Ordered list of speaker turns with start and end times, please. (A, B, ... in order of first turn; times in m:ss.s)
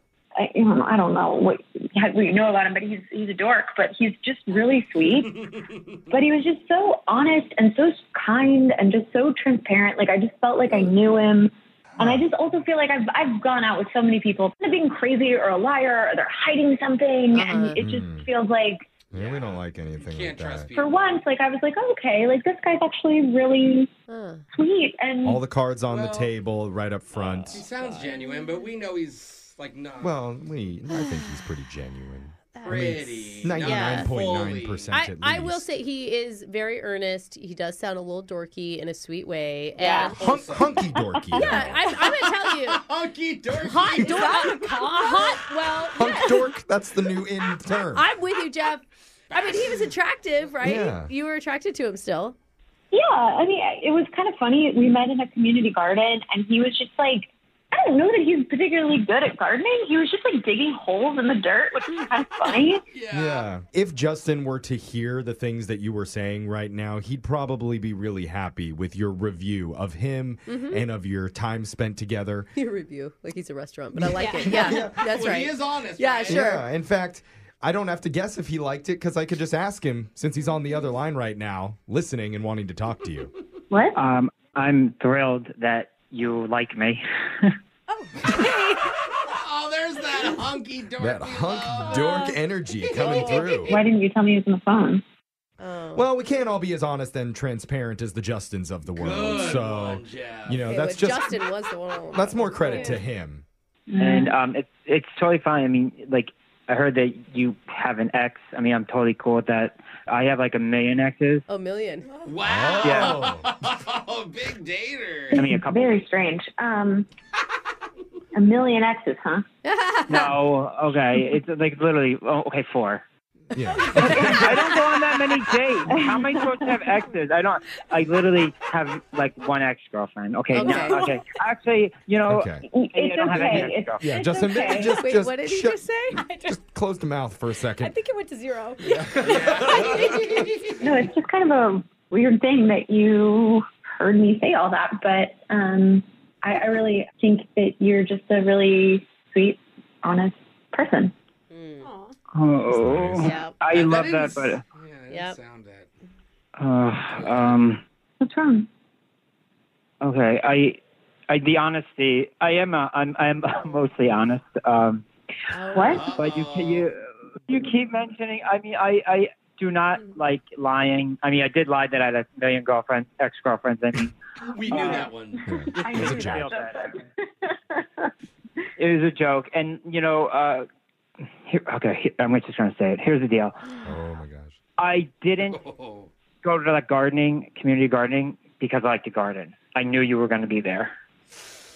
0:00.4-0:05.5 A
0:05.0-0:06.0 B
0:06.1-0:18.8 A
0:12.0-0:12.2 C
0:17.3-0:17.8 D
0:17.8-0:18.3 C
0:19.1-0:20.7 C
0:19.1-0:21.3 B
0:20.8-0:23.9 A
0:24.1-0:24.4 D
0:24.5-0:25.4 A
0:25.2-0:27.7 C
0:25.9-0:26.3 B
0:27.2-0:30.2 B
0:30.0-0:35.6 C
0:32.6-0:34.9 B
0:33.5-0:34.1 D
0:34.9-0:40.2 D
0:39.8-0:44.3 B
0:39.9-0:41.8 C
0:41.3-0:42.8 D
0:43.6-0:46.5 D
0:44.1-0:45.3 E
0:45.9-0:48.1 C
0:47.9-0:52.4 D
0:50.6-0:51.1 C
0:52.9-1:02.8 A
1:02.4-1:03.5 B
1:03.1-1:12.5 C
1:10.5-1:10.8 D
1:12.6-1:16.6 D
1:14.0-1:15.0 C
1:14.2-1:14.6 E
1:14.6-1:16.5 B
1:16.3-1:23.3 C
1:23.7-1:24.0 A
1:23.9-1:27.5 F
1:28.2-1:28.8 E
1:28.8-1:32.2 B
1:31.0-1:33.8 C
1:33.0-1:35.0 A
1:35.6-1:36.0 D
1:35.9-1:41.4 C
1:39.0-1:40.6 B
1:40.6-1:43.0 D
1:42.1-1:43.4 C
1:43.9-1:44.4 A
1:44.0-1:51.4 F
1:51.5-1:52.2 D
1:52.2-1:55.5 B
1:52.4-1:53.5 C
1:52.8-1:53.2 F
1:55.3-1:57.1 A
1:55.4-1:56.1 F
1:58.3-1:59.4 A
1:59.6-2:00.4 D
2:00.1-2:03.0 F
2:03.5-2:04.6 C
2:04.0-2:14.0 F
2:05.9-2:06.5 A
2:10.5-2:11.1 D
2:12.2-2:12.6 C
2:12.7-2:14.9 A
2:14.0-2:18.0 C
2:15.0-2:16.2 D
2:16.2-2:16.5 E
2:17.8-2:20.4 E
2:19.1-2:20.9 B
2:19.3-2:19.9 C
2:20.8-2:31.1 A
2:31.5-2:31.9 D
2:31.8-2:32.1 E
2:32.3-2:34.6 F
2:32.8-2:33.3 C
2:33.2-2:33.6 D
2:33.7-2:35.9 B
2:35.1-2:35.4 D
2:36.6-2:37.8 F
2:37.1-2:37.6 B
2:38.2-2:38.7 A
2:40.0-2:40.8 F
2:41.3-2:45.0 F
2:45.5-2:46.1 D
2:45.7-2:46.1 A
2:45.9-2:46.9 B
2:46.0-2:54.1 F
2:54.5-2:56.0 B
2:54.7-2:55.0 F
2:54.7-2:58.1 A
2:55.5-2:56.5 C
2:55.8-2:57.0 F
2:58.8-3:00.6 F
3:01.5-3:03.6 F
3:03.8-3:04.6 C
3:04.8-3:05.6 F
3:05.4-3:06.1 B
3:06.4-3:10.9 F